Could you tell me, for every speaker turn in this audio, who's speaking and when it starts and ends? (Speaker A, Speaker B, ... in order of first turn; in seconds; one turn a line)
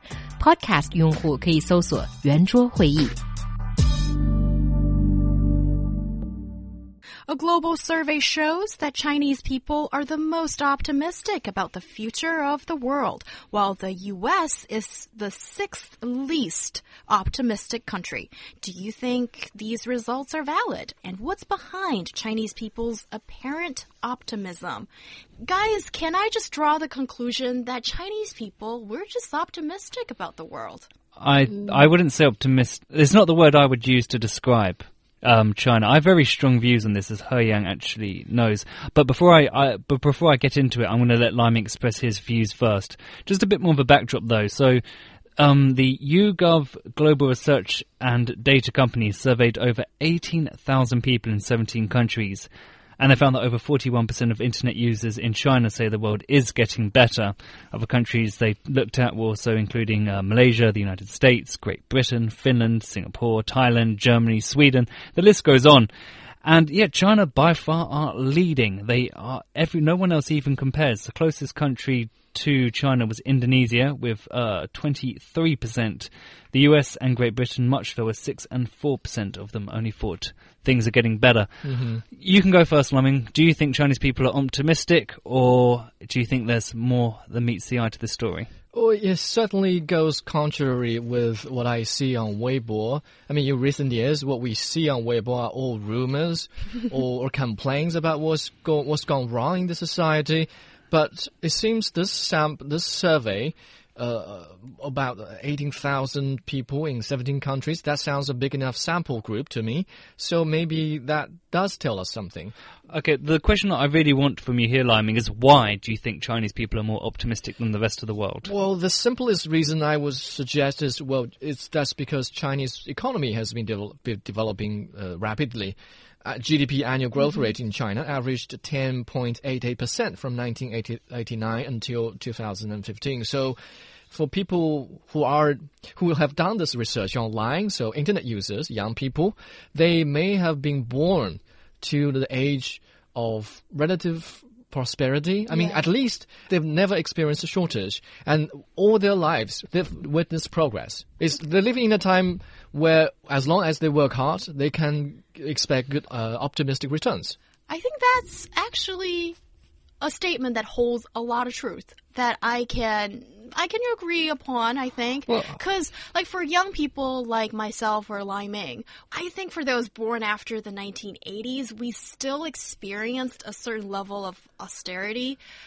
Speaker A: 0.4-3.1
Speaker B: 7.3-24.9
Speaker B: 25.4-30.9
Speaker C: 31.2-44.8
Speaker C: 45.4-65.9
Speaker C: 66.4-81.5
Speaker D: 81.6-82.0
Speaker C: 82.1-88.5
Speaker D: 88.7-112.5
Speaker C: 112.9-118.5
Speaker D: 118.4-133.6
Speaker D: 134.1-157.3
Speaker B: 145.5-145.8
Speaker B: 157.7-159.4
Speaker B: 160.0-175.4
Speaker D: 165.3-165.6